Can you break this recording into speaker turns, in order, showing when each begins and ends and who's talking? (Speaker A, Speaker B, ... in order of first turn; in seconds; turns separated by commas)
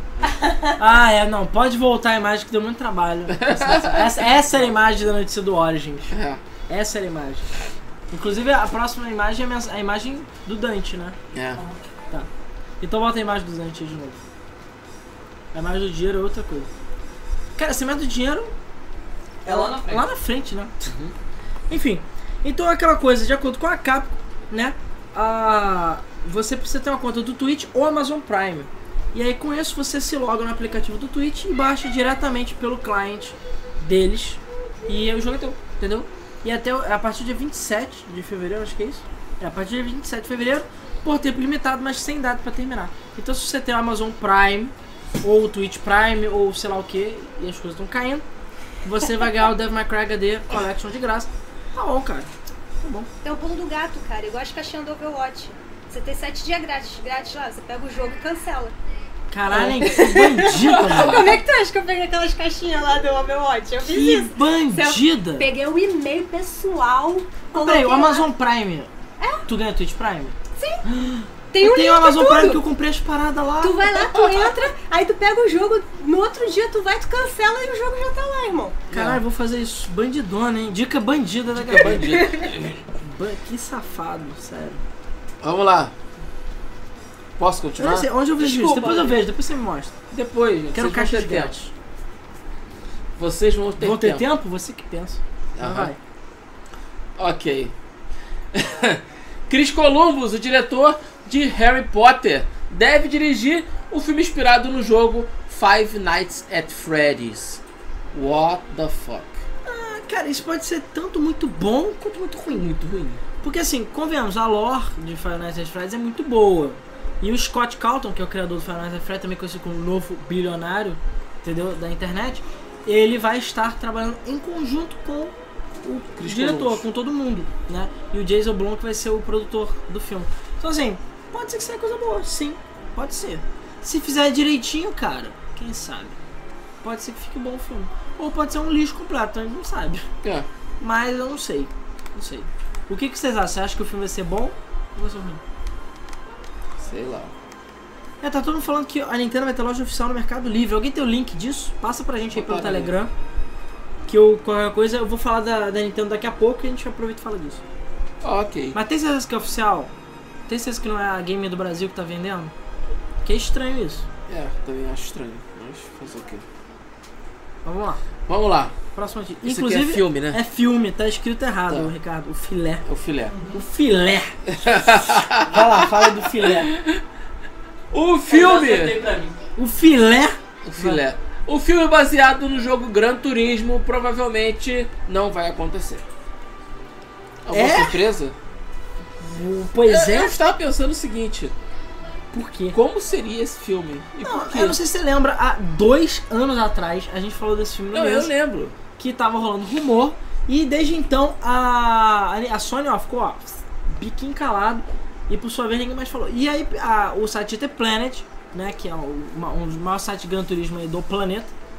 Speaker A: 0.8-6.1, Speaker B: 3.3-4.2, Speaker B: 6.1-6.4, Speaker A: 6.7-7.5, Speaker A: 8.1-11.2, Speaker B: 11.3-11.6, Speaker A: 12.8-14.2, Speaker A: 15.5-16.7, Speaker A: 17.6-18.5, Speaker C: 19.4-20.1, Speaker A: 19.4-20.9, Speaker B: 20.9-21.1, Speaker A: 21.7-48.2, Speaker A: 48.8-52.3, Speaker A: 52.8-53.1, Speaker D: 53.2-58.7, Speaker A: 59.3-61.4, Speaker D: 59.8-68.3, Speaker B: 60.6-61.3, Speaker A: 63.8-65.5, Speaker A: 67.5-68.9, Speaker A: 69.4-73.9, Speaker D: 70.5-70.8, Speaker D: 71.5-72.6, Speaker D: 73.6-78.8, Speaker B: 78.9-79.2, Speaker A: 78.9-82.2, Speaker B: 81.5-82.8, Speaker D: 82.2-82.5, Speaker A: 83.0-84.8, Speaker B: 85.4-85.9, Speaker B: 87.4-88.1, Speaker A: 87.8-89.9, Speaker D: 88.5-89.1, Speaker B: 90.1-91.5, Speaker A: 90.7-91.7, Speaker B: 93.2-94.2, Speaker A: 93.8-96.0, Speaker B: 95.5-95.9, Speaker B: 97.2-97.7, Speaker B: 98.5-107.6, Speaker B: 108.1-109.4, Speaker A: 109.6-112.7, Speaker B: 112.5-113.2, Speaker A: 113.4-136.2, Speaker B: 126.2-126.8, Speaker A: 136.8-140.1, Speaker A: 140.8-145.4, Speaker B: 146.8-147.3, Speaker A: 148.2-153.1, Speaker B: 152.3-152.9, Speaker A: 154.1-157.6, Speaker B: 158.2-158.8, Speaker A: 158.7-159.9, Speaker A: 160.5-162.5, Speaker A: 163.2-164.1, Speaker B: 164.3-166.4, Speaker A: 167.6-168.0, Speaker B: 168.3-168.7, Speaker A: 168.9-172.8, Speaker B: 169.4-170.4, Speaker B: 171.7-171.9, Speaker B: 172.8-173.3, Speaker C: 173.3-173.6, Speaker A: 173.5-176.7, Speaker B: 174.5-177.0, Speaker B: 177.9-179.0, Speaker C: 178.3-179.4, Speaker A: 179.5-181.0, Speaker B: 180.6-186.0, Speaker B: 187.4-188.3, Speaker A: 187.5-188.0, Speaker A: 189.2-190.3, Speaker B: 189.8-191.5, Speaker A: 192.3-192.8, Speaker B: 192.7-194.8, Speaker A: 194.2-198.3, Speaker B: 197.9-198.8, Speaker A: 199.0-211.5